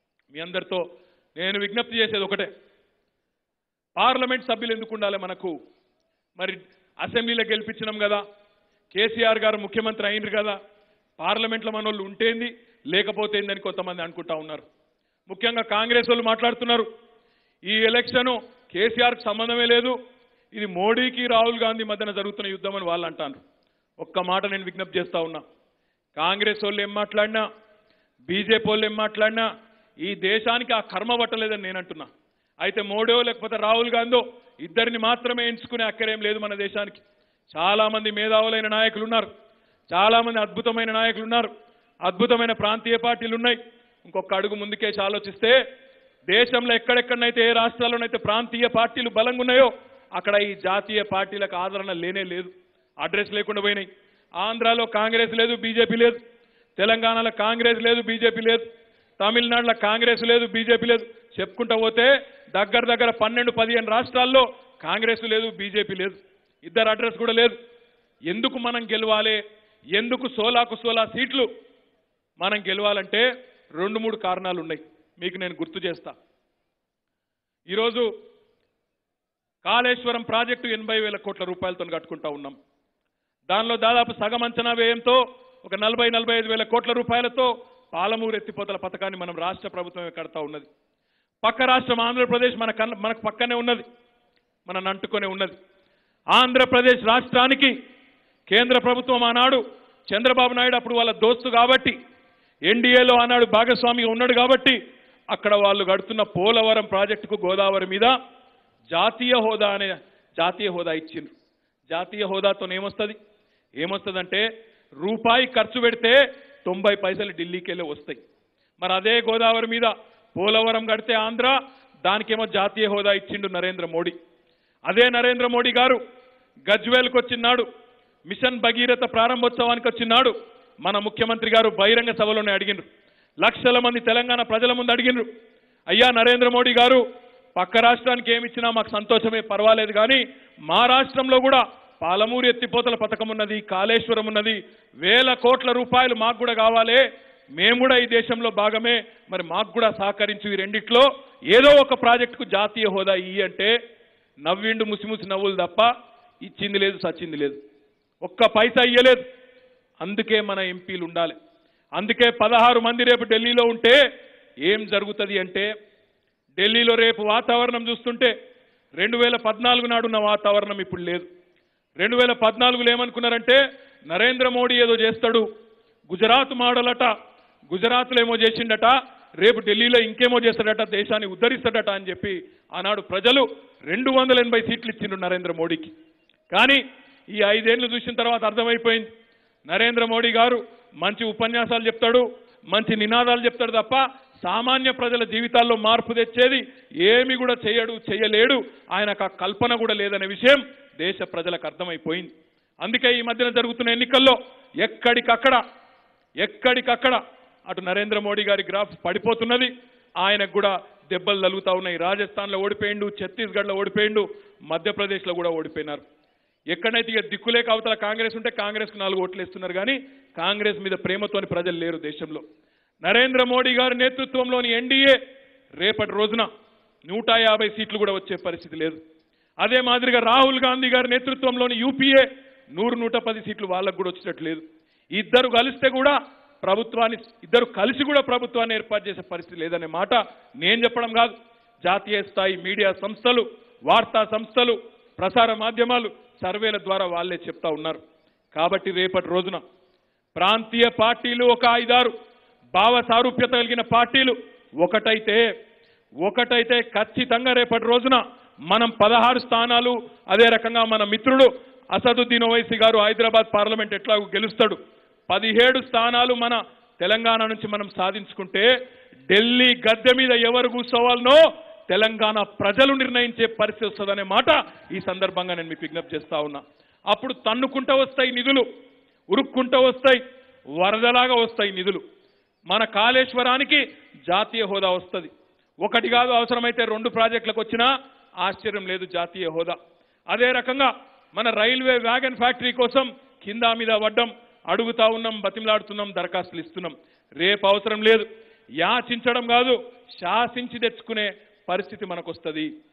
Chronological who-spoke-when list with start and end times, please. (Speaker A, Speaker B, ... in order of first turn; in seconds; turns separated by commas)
Speaker A: 0.3-0.8, Speaker A: 1.4-2.5, Speaker A: 4.0-5.5, Speaker A: 6.4-8.2, Speaker A: 8.9-10.6, Speaker A: 11.2-14.6, Speaker A: 15.3-16.9, Speaker A: 17.6-19.9, Speaker A: 20.5-23.4, Speaker A: 24.0-25.4, Speaker A: 26.1-27.4, Speaker A: 28.3-29.4, Speaker A: 30.0-32.1, Speaker A: 32.6-37.0, Speaker A: 37.5-39.3, Speaker A: 39.9-41.5, Speaker A: 42.0-45.5, Speaker A: 46.3-52.5, Speaker A: 53.0-53.9, Speaker A: 54.4-56.2, Speaker A: 56.8-58.6, Speaker A: 59.2-67.5, Speaker A: 68.3-69.4, Speaker A: 70.0-71.5, Speaker A: 72.4-76.1, Speaker A: 77.7-78.1, Speaker A: 79.6-82.5, Speaker A: 83.5-90.7, Speaker A: 91.4-93.8, Speaker A: 94.7-95.5, Speaker A: 96.3-97.7, Speaker A: 98.5-101.9, Speaker A: 102.7-104.8, Speaker A: 105.3-108.1, Speaker A: 108.9-111.3, Speaker A: 111.9-113.2, Speaker A: 113.8-114.5, Speaker A: 115.0-118.2, Speaker A: 118.8-124.1, Speaker A: 124.9-126.0, Speaker A: 126.7-127.7, Speaker A: 128.3-130.3, Speaker A: 130.8-132.8, Speaker A: 133.4-135.3, Speaker A: 135.9-137.0, Speaker A: 137.6-147.0, Speaker A: 147.6-153.7, Speaker A: 154.4-155.9, Speaker A: 156.4-157.6, Speaker A: 158.2-159.2, Speaker A: 160.0-161.3, Speaker A: 162.0-164.0, Speaker A: 164.6-165.7, Speaker A: 166.6-168.3, Speaker A: 169.0-171.2, Speaker A: 172.0-175.4, Speaker A: 176.1-177.1, Speaker A: 177.7-185.9, Speaker A: 186.5-186.8, Speaker A: 187.3-189.1, Speaker A: 189.7-202.3, Speaker A: 202.8-205.6, Speaker A: 206.4-216.0, Speaker A: 216.7-222.4, Speaker A: 223.0-225.2, Speaker A: 225.8-226.5, Speaker A: 227.1-229.0, Speaker A: 229.6-234.6, Speaker A: 235.1-241.3, Speaker A: 241.8-248.0, Speaker A: 248.5-249.6, Speaker A: 250.3-252.1, Speaker A: 252.8-255.4, Speaker A: 256.2-264.8, Speaker A: 265.3-268.7, Speaker A: 269.3-278.6, Speaker A: 279.3-280.2, Speaker A: 280.8-282.0, Speaker A: 282.7-285.3, Speaker A: 285.8-287.9, Speaker A: 288.4-289.8, Speaker A: 290.3-298.2, Speaker A: 298.8-302.7